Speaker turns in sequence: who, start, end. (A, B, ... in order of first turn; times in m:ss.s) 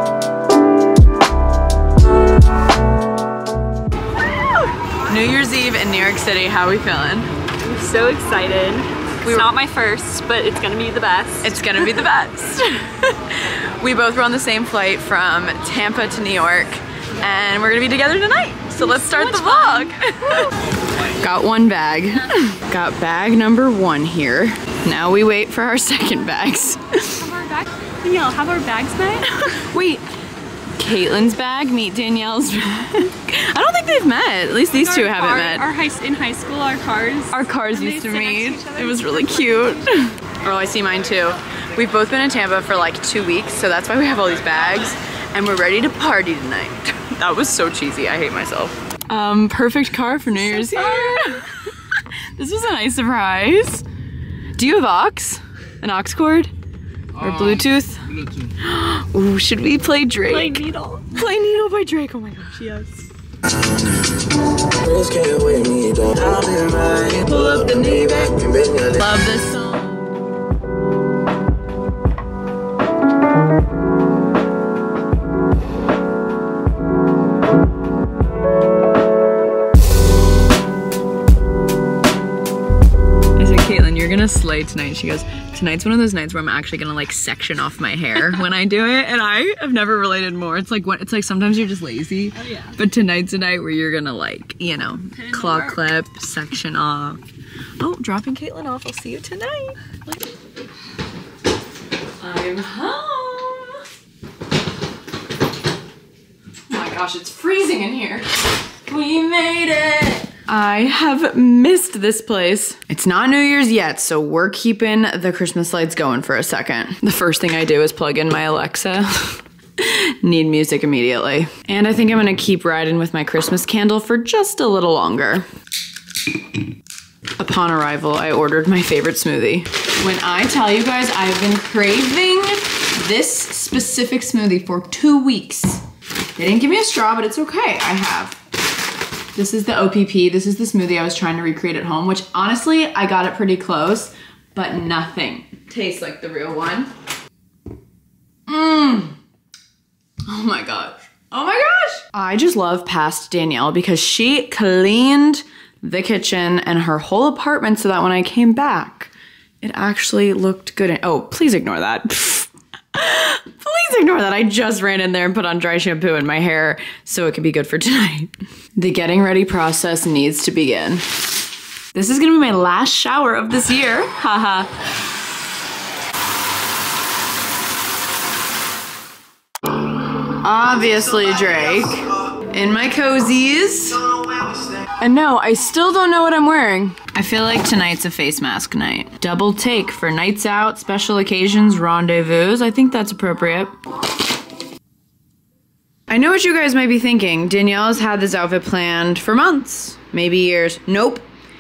0:05.0-0:07.3 A
0:07.6-0:11.9 B
0:09.2-0:09.5 A
0:11.4-0:27.3 A
0:18.8-0:20.5 B
0:27.2-0:29.6 B
0:29.4-0:30.1 A
0:30.8-0:35.7 A
0:34.8-0:40.1 B
0:37.3-0:53.9 A
0:50.5-0:51.4 B
0:54.6-0:56.5 A
0:57.2-1:02.9 A
1:00.3-1:01.2 B
1:04.8-1:07.0 C
1:07.0-1:10.1 A
1:23.4-1:37.2 A
1:32.4-1:32.8 B
1:37.8-1:40.2 A
1:42.2-1:43.8 A
1:46.7-2:05.5 A
2:07.4-2:15.8 A
2:16.4-2:18.4 A
2:19.3-2:26.9 A
2:28.5-2:29.2 A
2:30.3-2:51.2 A
2:51.9-2:54.7 A
3:00.3-3:13.7 A
3:16.1-3:21.3 A